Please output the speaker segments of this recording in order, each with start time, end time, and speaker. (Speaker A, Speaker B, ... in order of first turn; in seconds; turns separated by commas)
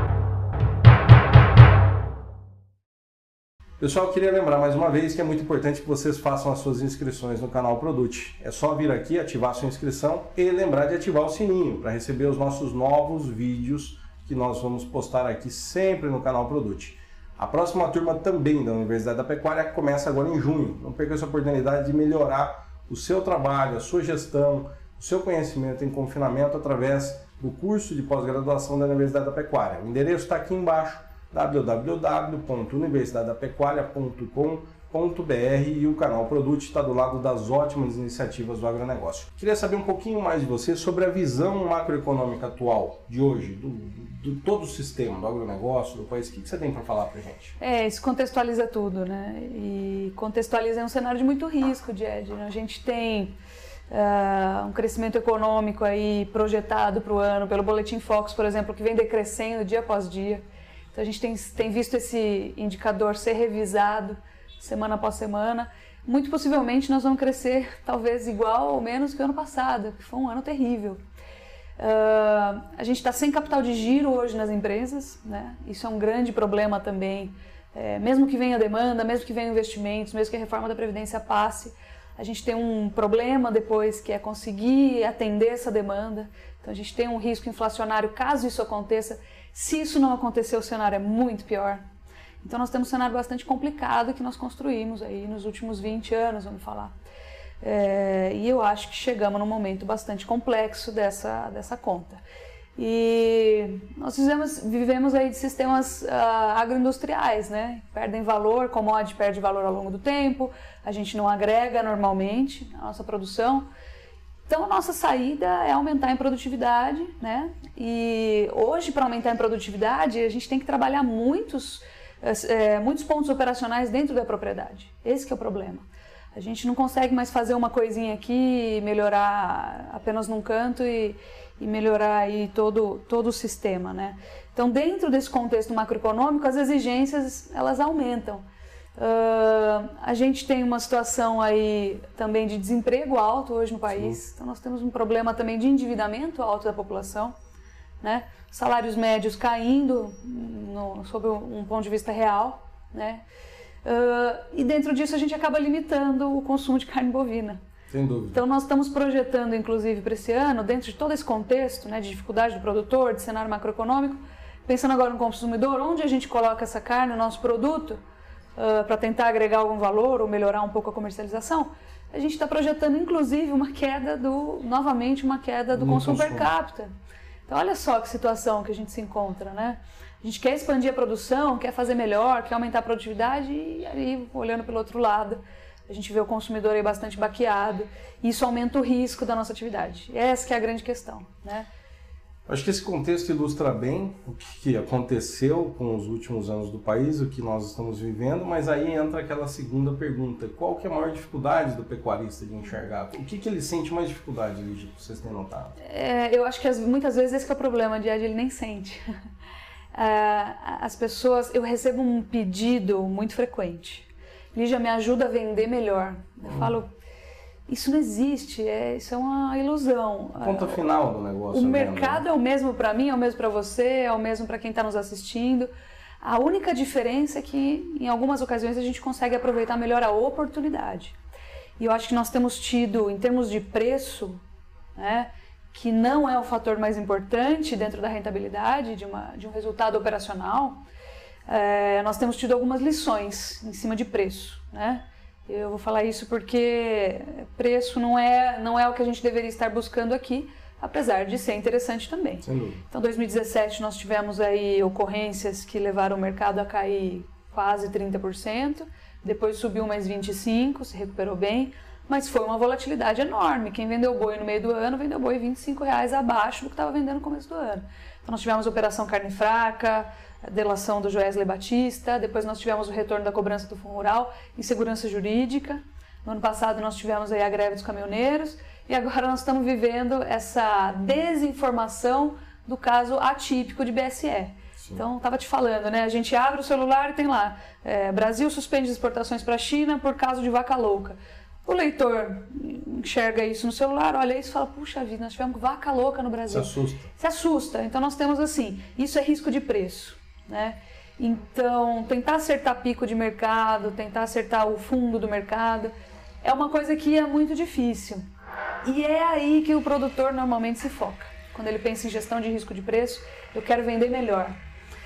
Speaker A: 3.8-47.6, Speaker B: 47.6-53.4, Speaker B: 53.9-71.0, Speaker B: 71.8-91.8, Speaker B: 92.4-96.9, Speaker B: 97.6-102.2, Speaker B: 102.8-113.7, Speaker B: 114.5-138.4, Speaker B: 139.0-147.4, Speaker A: 143.9-144.2, Speaker B: 148.0-153.2, Speaker B: 153.8-157.6, Speaker A: 157.9-158.4, Speaker B: 158.3-168.0, Speaker B: 168.6-176.9, Speaker A: 175.7-176.5, Speaker B: 177.5-191.7, Speaker A: 192.5-205.8, Speaker B: 205.8-209.0, Speaker B: 209.9-216.9, Speaker A: 216.5-216.8, Speaker B: 217.7-220.8, Speaker A: 220.4-222.2, Speaker B: 221.5-225.7, Speaker B: 226.2-231.2, Speaker B: 231.8-234.4, Speaker B: 235.0-240.8, Speaker B: 241.5-308.2, Speaker A: 252.4-252.9, Speaker A: 296.5-297.1, Speaker B: 308.8-314.6